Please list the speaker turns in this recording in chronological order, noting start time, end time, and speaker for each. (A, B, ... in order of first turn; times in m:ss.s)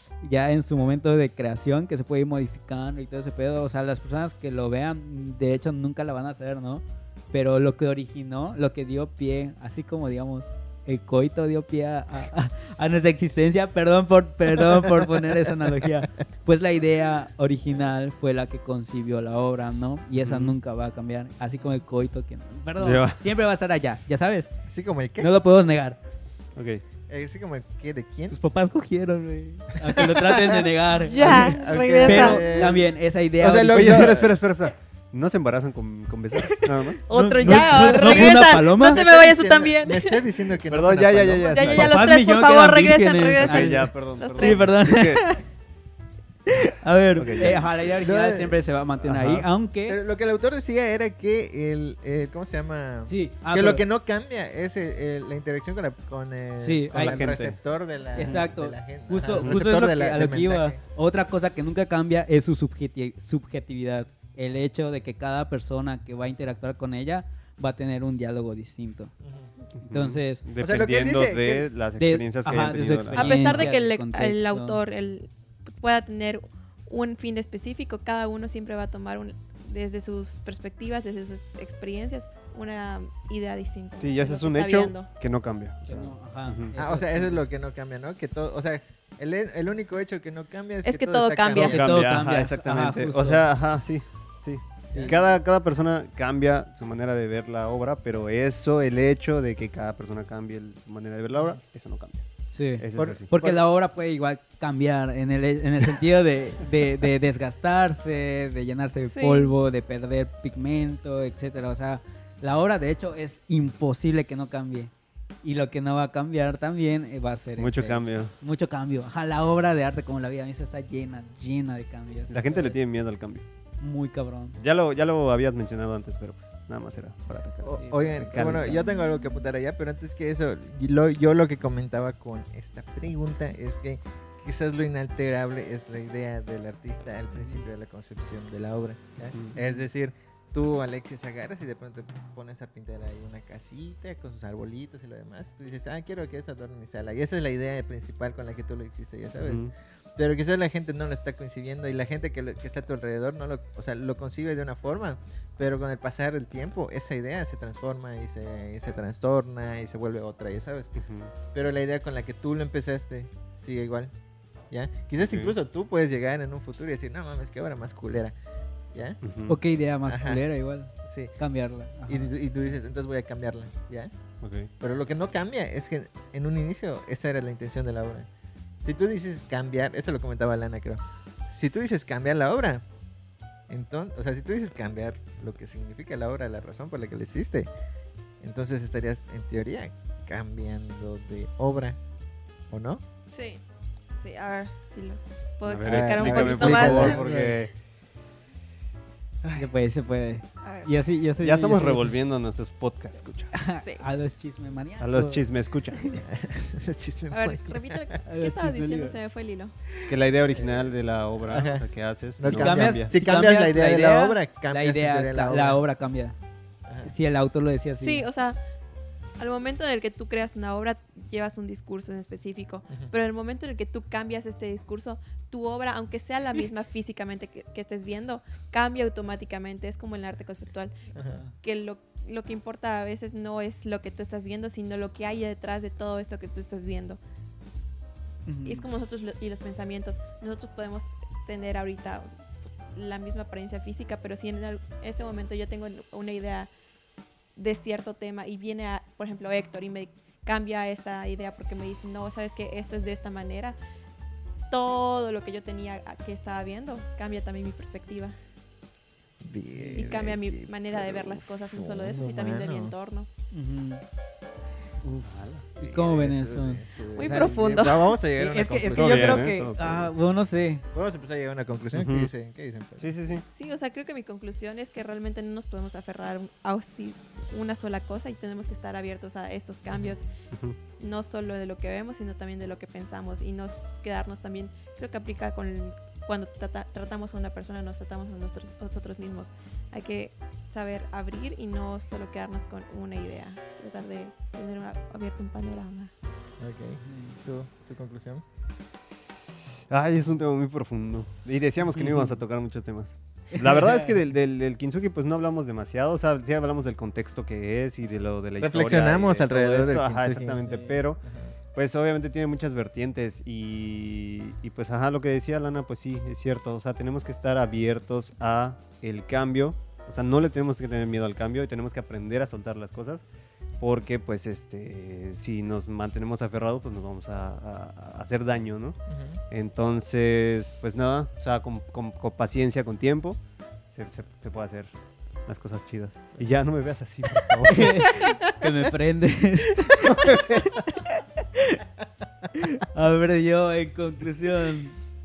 0:00.2-0:24.5 A
0:20.2-0:20.6 B
0:22.8-0:23.2 B
0:24.7-0:25.3 C
0:25.2-0:26.0 A
0:26.6-0:26.8 B
0:27.1-0:28.4 C
0:28.2-0:34.2 A
0:29.9-0:34.3 C
0:31.0-0:32.7 D
0:33.7-0:38.0 B
0:37.1-0:40.3 D
0:37.1-0:39.0 A
0:38.0-0:41.9 C
0:40.7-0:41.9 B
0:41.4-0:44.7 D
0:41.8-0:45.4 A
0:43.4-0:45.2 B
0:46.8-0:50.0 A
0:47.2-0:47.6 B
0:47.4-0:48.6 C
0:49.1-0:49.5 B
0:49.8-1:00.8 C
0:53.1-0:53.8 A
0:56.6-0:57.2 A
0:56.9-0:57.6 B
0:58.2-1:09.1 A
0:59.3-0:59.6 B
1:09.2-1:09.5 C
1:09.8-1:13.7 B
1:09.9-1:10.4 A
1:10.6-1:11.7 C
1:12.0-1:14.8 A
1:13.1-1:25.1 D
1:24.0-1:26.7 B
1:25.9-1:27.4 A
1:26.8-1:31.9 C
1:30.8-1:31.8 D
1:31.5-1:33.4 A
1:31.6-1:43.6 B
1:34.9-1:35.2 A
1:34.9-1:35.2 C
1:42.5-1:54.9 A
1:49.0-1:49.5 D
1:55.4-2:02.8 A
1:57.6-1:58.3 B
2:02.3-2:03.4 B
2:03.8-2:04.6 A
2:04.6-2:08.9 B
2:07.6-2:40.9 C
2:07.7-2:08.6 A
2:08.8-2:09.4 D
2:17.4-2:17.6 A
2:19.6-2:19.8 A
2:29.4-2:29.7 B
2:41.0-2:41.3 B
2:41.5-2:44.1 C
2:44.7-2:48.4 C
2:45.2-2:45.6 B
2:48.9-2:49.2 C
2:49.2-2:49.6 B
2:49.5-2:52.3 A
2:50.1-2:50.4 C
2:51.0-2:51.3 C
2:52.1-2:54.1 C
2:54.4-2:54.7 B
2:54.8-2:58.3 C
2:58.8-3:02.8 C
3:03.7-3:07.7 C
3:08.4-3:12.0 C
3:12.7-3:13.0 C
3:13.3-3:13.6 D
3:14.2-3:17.2 D
3:15.7-3:17.7 B
3:15.8-3:17.2 C
3:17.0-3:17.6 A
3:19.6-3:22.1 A
3:20.6-3:20.9 D
3:21.4-3:24.0 B
3:23.5-3:25.4 A
3:25.0-3:26.2 B
3:26.2-3:28.0 C
3:27.3-3:29.7 D
3:28.2-3:29.2 A
3:30.1-3:33.1 B
3:30.5-3:30.9 C
3:31.5-3:31.8 C
3:32.4-3:35.8 C
3:32.4-3:36.4 A
3:37.0-3:38.3 A
3:38.0-3:38.6 D
3:39.4-3:51.1 D
3:51.1-3:51.4 C
3:51.2-3:51.5 A
3:51.6-3:57.2 D
3:58.5-3:58.9 A
3:58.6-4:02.3 D
4:02.9-4:06.7 D
4:07.6-4:13.8 D
4:14.7-4:18.4 D
4:19.4-4:22.9 C
4:19.8-4:23.3 D
4:23.5-4:24.0 A
4:25.0-4:25.7 B
4:25.8-4:30.8 A
4:25.8-4:29.5 C
4:27.1-4:28.2 D
4:28.9-4:30.1 B
4:30.9-4:33.1 C
4:31.9-4:32.3 B
4:33.0-4:33.4 B
4:33.5-4:40.3 D
4:40.5-4:40.8 B
4:41.0-4:56.1 D
4:56.6-4:58.4 C
4:57.0-4:57.4 A
4:59.9-5:11.2 B
5:02.0-5:02.4 A
5:03.5-5:04.2 A
5:08.6-5:10.7 C
5:10.6-5:11.0 A
5:11.2-5:11.5 C
5:11.8-5:23.2 B
5:23.8-5:29.0 B
5:29.1-5:29.4 C
5:29.5-5:33.4 B
5:33.9-5:34.9 B
5:35.5-5:37.9 B
5:37.4-5:37.8 C
5:37.7-5:40.1 A
5:40.0-5:40.8 C
5:41.5-5:41.8 A
5:42.5-5:45.0 A